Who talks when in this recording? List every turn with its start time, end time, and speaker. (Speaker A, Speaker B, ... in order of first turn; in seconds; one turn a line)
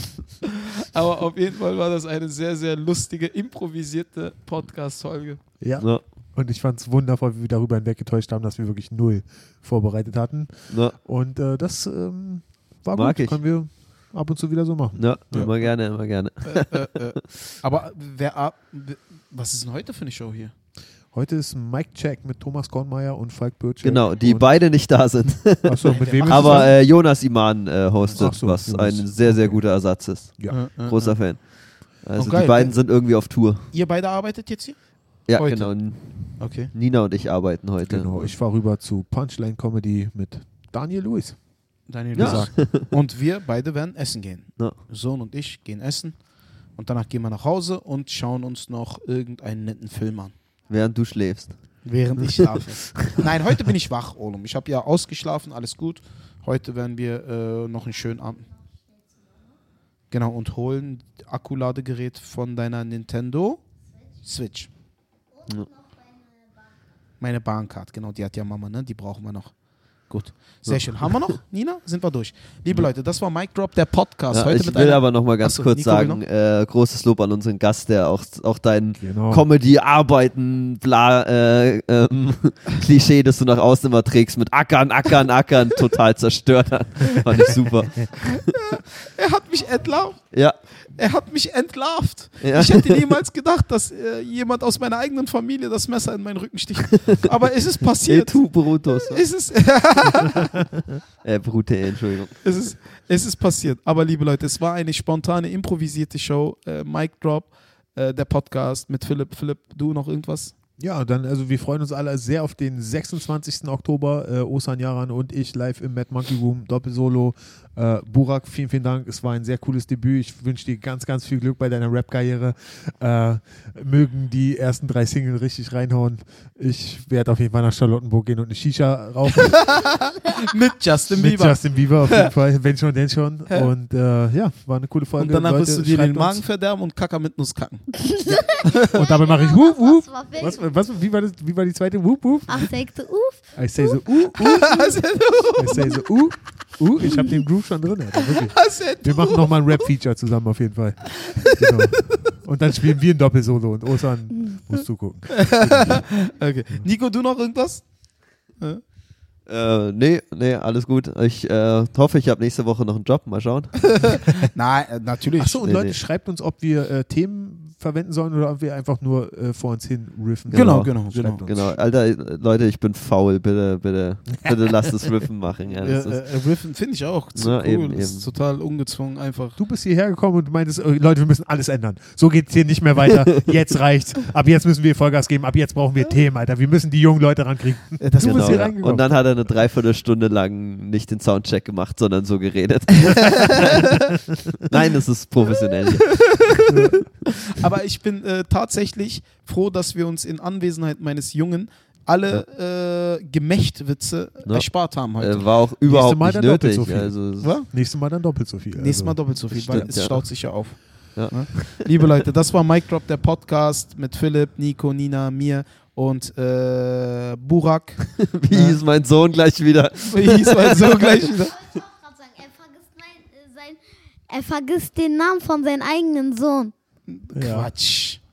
Speaker A: 0.8-5.4
Speaker B: 5.6-15.5
Speaker C: 10.7-10.9
Speaker C: 12.9-13.4
Speaker C: 15.0-16.9
Speaker A: 16.4-20.5
Speaker B: 21.1-24.5
Speaker C: 23.8-33.7
Speaker B: 25.6-26.8
Speaker A: 25.8-26.7
Speaker B: 28.1-29.6
Speaker A: 30.5-31.5
Speaker A: 32.1-32.8
Speaker A: 33.7-34.8
Speaker C: 35.3-38.3
Speaker A: 35.3-36.7
Speaker B: 37.9-41.4
Speaker A: 41.9-46.2
Speaker B: 42.1-42.5
Speaker C: 42.1-42.9
Speaker A: 46.8-50.3
Speaker C: 50.7-51.5
Speaker A: 51.8-58.5
Speaker C: 52.2-52.5
Speaker A: 60.1-63.6
Speaker A: 64.2-64.7
Speaker D: 65.4-66.4
Speaker A: 67.2-69.5
Speaker A: 70.1-76.2
Speaker C: 70.7-71.2
Speaker C: 74.3-88.5
Speaker B: 79.0-79.4
Speaker A: 88.2-90.2
Speaker C: 90.3-90.6
Speaker A: 90.8-100.6
Speaker C: 92.4-93.2
Speaker C: 96.9-97.3
Speaker C: 98.1-99.2
Speaker C: 101.2-102.4
Speaker A: 102.4-110.5
Speaker B: 110.8-129.9
Speaker A: 129.3-132.3
Speaker B: 131.1-136.4
Speaker A: 135.2-138.0
Speaker D: 137.9-140.6
Speaker A: 138.5-139.0
Speaker B: 138.9-142.7
Speaker D: 142.5-144.0
Speaker B: 143.6-144.9
Speaker A: 144.3-145.9
Speaker D: 144.8-145.0
Speaker B: 145.5-156.0
Speaker D: 145.7-146.0
Speaker A: 148.1-149.9
Speaker A: 151.2-152.2
Speaker A: 155.3-157.8
Speaker C: 159.5-164.2
Speaker A: 163.8-165.6
Speaker B: 165.4-171.8
Speaker C: 165.6-165.9
Speaker C: 170.5-176.2
Speaker A: 170.5-171.4
Speaker A: 175.7-179.6
Speaker C: 177.3-178.3
Speaker B: 179.6-189.1
Speaker A: 188.0-188.7
Speaker C: 188.2-196.4
Speaker A: 193.1-194.1
Speaker A: 195.6-205.5
Speaker B: 196.7-197.1
Speaker C: 204.4-207.5
Speaker B: 205.8-209.2
Speaker A: 207.4-207.7
Speaker A: 208.7-218.8
Speaker C: 209.5-212.0
Speaker C: 218.1-221.3
Speaker A: 220.1-221.6
Speaker D: 221.3-226.7
Speaker A: 227.1-228.2
Speaker B: 227.3-227.7